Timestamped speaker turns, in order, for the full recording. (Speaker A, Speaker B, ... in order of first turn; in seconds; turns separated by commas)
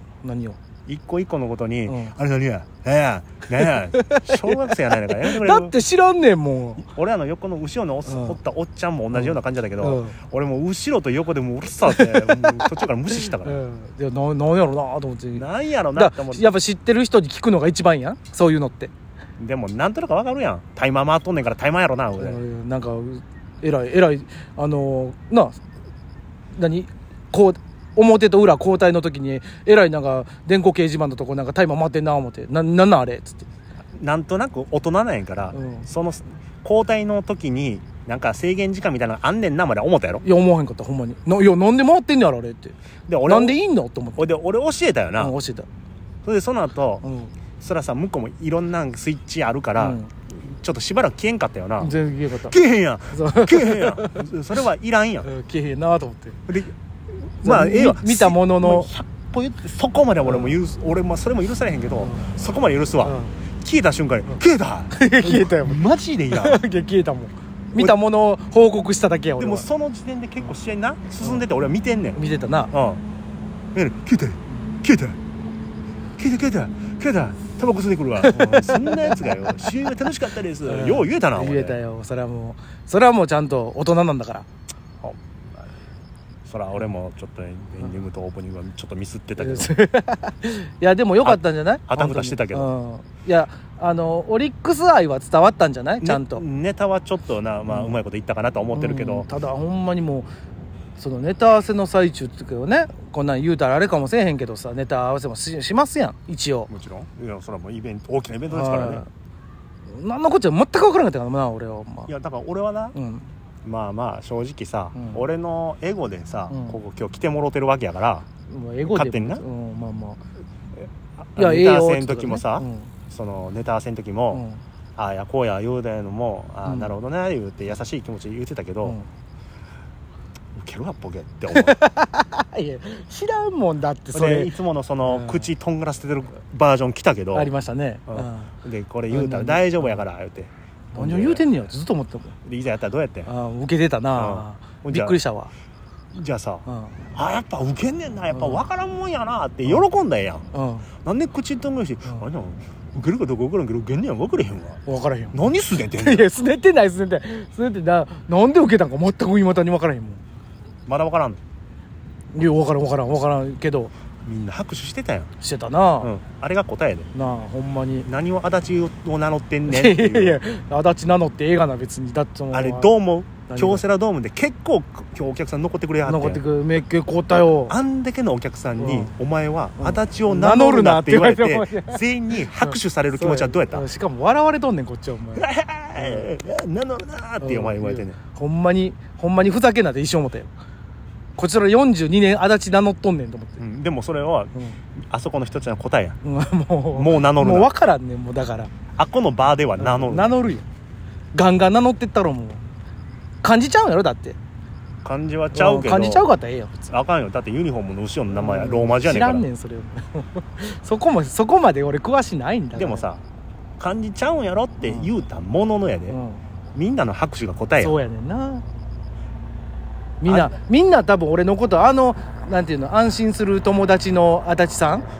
Speaker A: 0.2-0.6, Speaker B: 0.9-5.7, Speaker A: 1.9-2.1, Speaker A: 3.6-6.9, Speaker B: 6.9-13.6, Speaker A: 8.1-8.4, Speaker A: 9.1-10.2, Speaker A: 11.9-18.9, Speaker B: 15.3-16.5, Speaker B: 19.4-22.4, Speaker A: 22.2-25.6, Speaker A: 26.5-33.5, Speaker B: 33.9-40.2, Speaker A: 35.5-35.9, Speaker A: 40.2-44.3, Speaker B: 43.1-43.6, Speaker B: 44.2-45.4, Speaker A: 45.2-45.7, Speaker B: 46.2-47.0, Speaker A: 47.0-47.3, Speaker B: 47.6-52.0, Speaker A: 49.8-50.1, Speaker A: 51.8-52.6, Speaker B: 52.5-55.3, Speaker A: 53.1-54.3, Speaker A: 55.2-56.4, Speaker B: 56.5-56.7, Speaker B: 57.4-66.6, Speaker A: 57.4-58.9, Speaker A: 60.2-60.6, Speaker A: 62.0-62.3, Speaker A: 63.0-63.4, Speaker A: 64.3-69.7, Speaker B: 69.4-72.2, Speaker A: 71.2-71.5, Speaker A: 72.2-72.7, Speaker B: 72.7-73.0, Speaker B: 73.8-75.2, Speaker B: 76.2-81.8, Speaker A: 78.2-79.5, Speaker A: 80.7-84.5, Speaker B: 85.0-85.7, Speaker B: 86.5-89.7, Speaker A: 89.4-96.4, Speaker B: 91.2-92.7, Speaker B: 96.0-99.3, Speaker A: 97.7-98.0, Speaker A: 98.8-100.3, Speaker A: 101.0-106.7, Speaker B: 106.7-109.0, Speaker A: 108.5-109.1, Speaker A: 109.9-112.1, Speaker B: 112.1-113.0, Speaker A: 112.9-113.3, Speaker B: 113.6-118.3, Speaker A: 115.0-115.2, Speaker A: 116.5-116.8, Speaker A: 118.5-120.2, Speaker B: 118.8-119.4, Speaker B: 121.3-124.4, Speaker A: 121.4-122.9, Speaker A: 124.3-124.6, Speaker B: 125.0-129.0, Speaker A: 126.7-126.9, Speaker B: 130.6-131.8, Speaker A: 131.5-134.5, Speaker B: 134.1-137.5, Speaker A: 135.1-135.5, Speaker A: 137.3-138.5, Speaker B: 138.1-141.4, Speaker A: 139.1-140.0, Speaker A: 140.9-142.4, Speaker B: 142.4-143.3, Speaker A: 143.3-145.5, Speaker B: 144.2-145.2, Speaker B: 146.1-150.5, Speaker A: 146.7-147.0, Speaker A: 148.3-148.6, Speaker A: 150.5-150.9, Speaker B: 151.0-154.8, Speaker A: 154.9-160.2, Speaker B: 155.3-156.3, Speaker B: 160.9-161.4, Speaker A: 162.3-163.9, Speaker B: 164.2-165.3, Speaker A: 165.4-166.1, Speaker B: 166.0-167.1, Speaker A: 167.1-168.1, Speaker B: 168.1-170.4, Speaker A: 169.7-172.9, Speaker B: 172.5-176.4, Speaker A: 173.5-173.8, Speaker A: 176.0-177.8, Speaker B: 177.7-183.8, Speaker A: 178.8-179.1, Speaker A: 179.8-182.0, Speaker A: 182.6-185.5, Speaker B: 185.4-188.2, Speaker A: 186.0-186.3, Speaker A: 187.4-190.5, Speaker A: 191.4-193.6, Speaker B: 193.6-194.5, Speaker B: 195.1-196.2, Speaker A: 196.2-198.7, Speaker B: 196.9-197.7, Speaker B: 199.0-200.4, Speaker A: 199.8-200.7, Speaker A: 201.3-202.6, Speaker A: 203.4-204.4, Speaker B: 205.0-206.3, Speaker A: 205.5-206.9, Speaker B: 206.9-209.5, Speaker A: 208.4-213.1, Speaker B: 212.8-213.2, Speaker B: 213.8-216.2, Speaker A: 214.8-215.1, Speaker A: 216.1-216.4, Speaker B: 216.8-218.0, Speaker A: 217.8-218.6, Speaker A: 220.2-225.1, Speaker B: 220.3-220.5